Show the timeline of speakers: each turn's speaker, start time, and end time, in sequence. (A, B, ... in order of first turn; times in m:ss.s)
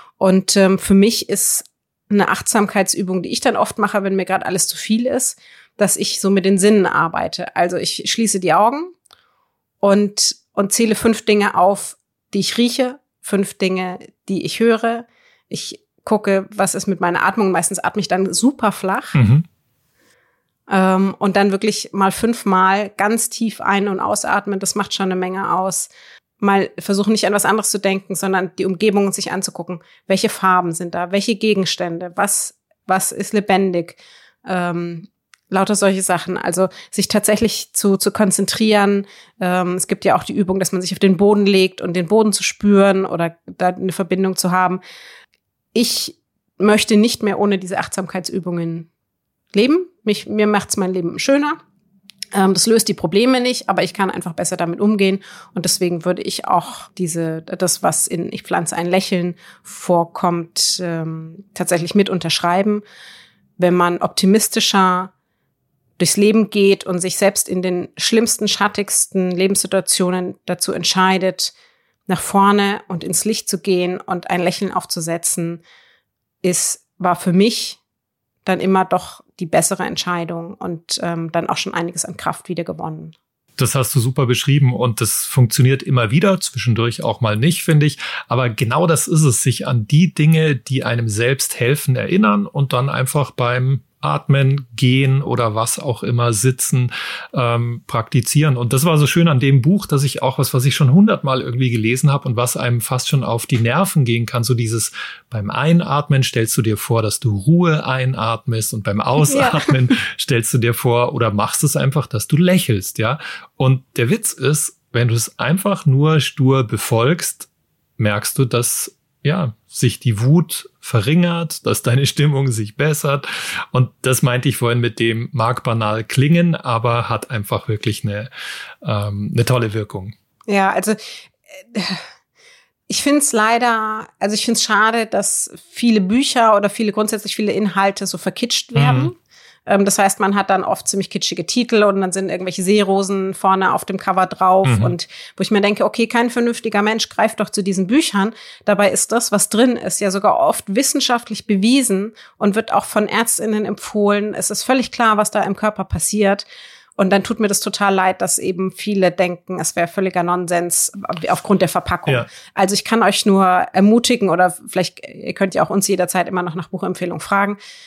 0:00.2-0:08.9 A
0:09.8-0:19.2 A
0:19.1-0:19.4 B
0:20.7-0:44.8 A
0:45.7-0:48.9 A
0:49.5-0:51.6 A
0:52.3-1:02.8 A
1:03.6-1:05.1 A
1:06.0-1:11.5 A
1:12.1-1:15.6 A
1:16.4-1:17.8 A
1:18.4-1:23.1 A
1:23.6-2:08.3 B
1:49.3-1:49.7 A
2:08.8-2:10.1 B
2:10.5-2:12.0 A
2:12.9-2:19.1 A
2:18.8-2:19.1 B
2:19.7-2:36.4 A
2:24.6-2:24.9 B
2:37.0-2:47.6 A